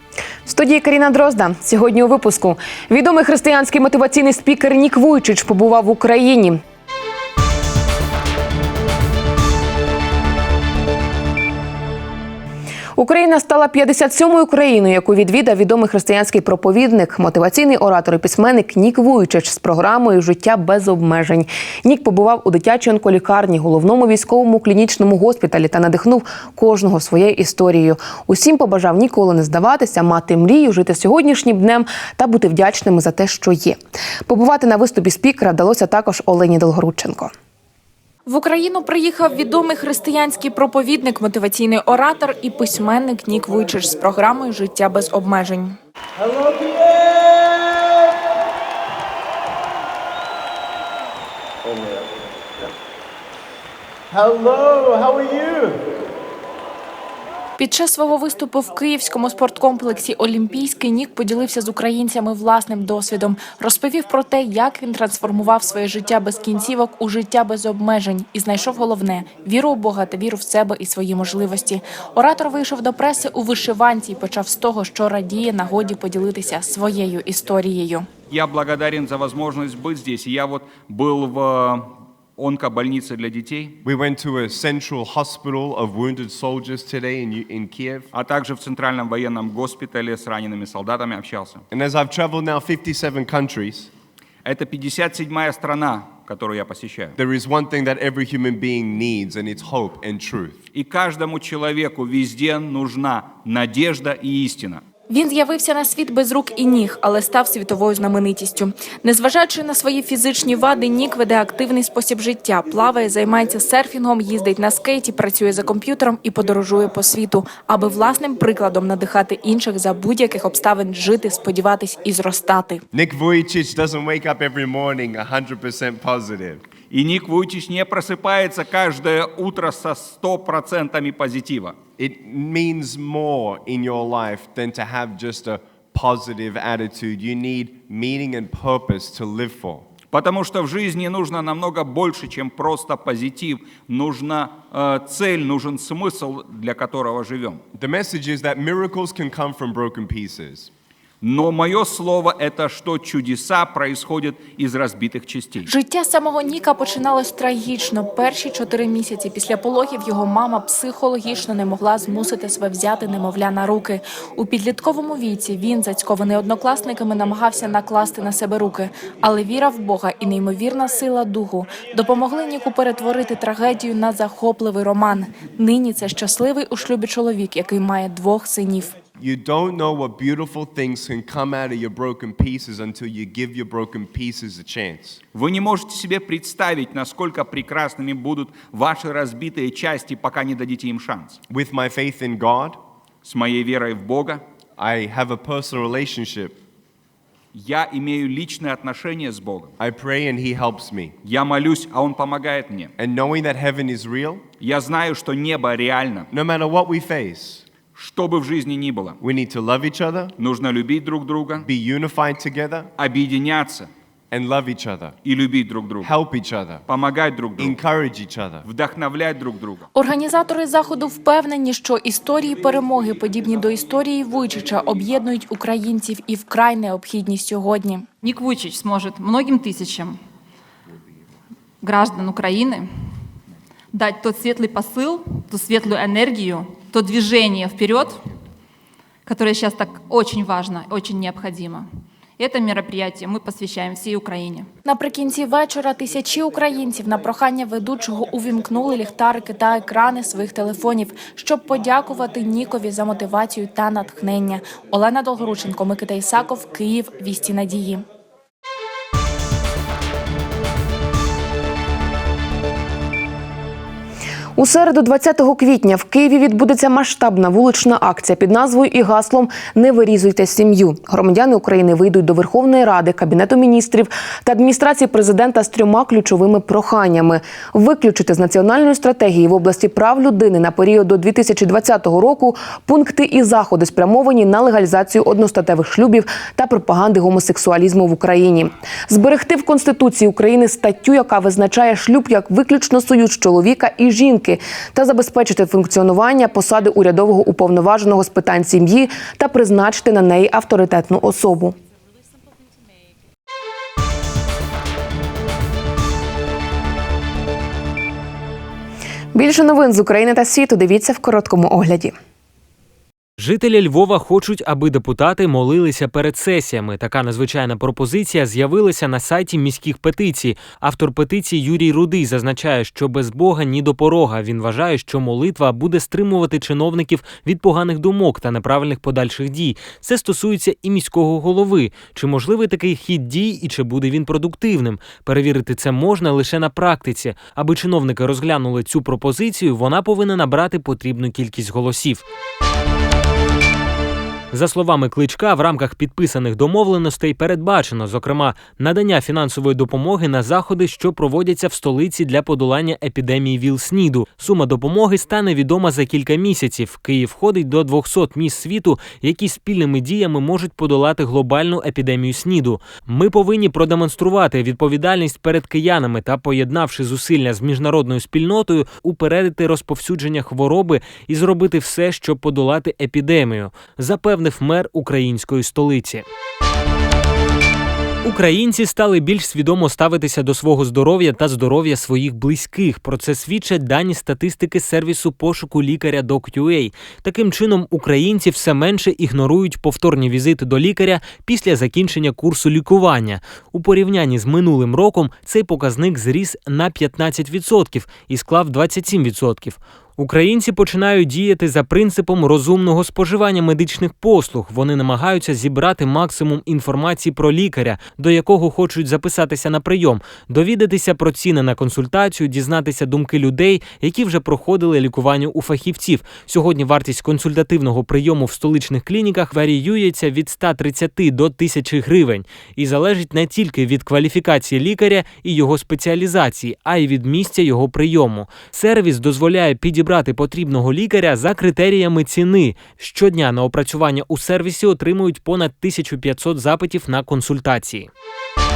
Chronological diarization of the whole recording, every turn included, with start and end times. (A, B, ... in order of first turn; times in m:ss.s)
0:00.4-0:06.6 A
0:13.0-0:37.3 A
0:38.3-0:45.8 B
0:54.2-0:55.6 C
0:57.6-1:18.1 B
1:18.3-1:23.8 D
1:23.8-1:28.1 C
1:28.1-1:31.6 D
1:31.7-1:33.9 C
1:34.4-1:37.1 D
1:37.2-1:40.6 C
1:40.7-1:44.8 D
1:45.1-2:02.8 B
2:02.9-2:06.6 C
2:06.9-2:11.8 D
2:12.0-2:19.8 C
2:20.1-2:27.6 D
2:27.7-2:30.7 C
2:31.2-2:35.7 D
2:35.7-2:58.9 B
2:59.2-3:05.2 C
3:05.3-3:11.4 D
3:11.5-3:12.8 C
3:13.2-3:14.4 D
3:14.8-3:16.6 C
3:17.5-3:19.7 D
3:19.8-3:21.1 C
3:21.2-3:22.9 D
3:23.0-3:24.4 C
3:24.6-3:26.3 D
3:26.3-3:27.6 C
3:27.9-3:29.2 D
3:29.2-3:30.3 C
3:30.4-3:31.7 D
3:31.6-3:32.9 C
3:33.0-3:33.9 D
3:34.3-3:35.1 C
3:35.2-3:36.2 D
3:36.0-3:36.8 C
3:36.9-3:37.8 D
3:37.6-3:38.6 C
3:38.6-3:39.8 D
3:39.9-3:48.0 B
3:48.2-3:50.1 E
3:51.8-3:52.9 E
3:53.9-3:58.2 E
3:59.2-4:01.8 E
4:02.4-4:04.7 E
4:04.8-4:18.0 B
4:24.6-5:01.8 A
5:09.3-5:12.1 A
5:13.4-5:42.2 F
5:44.5-6:16.2 F
6:18.2-7:18.1 F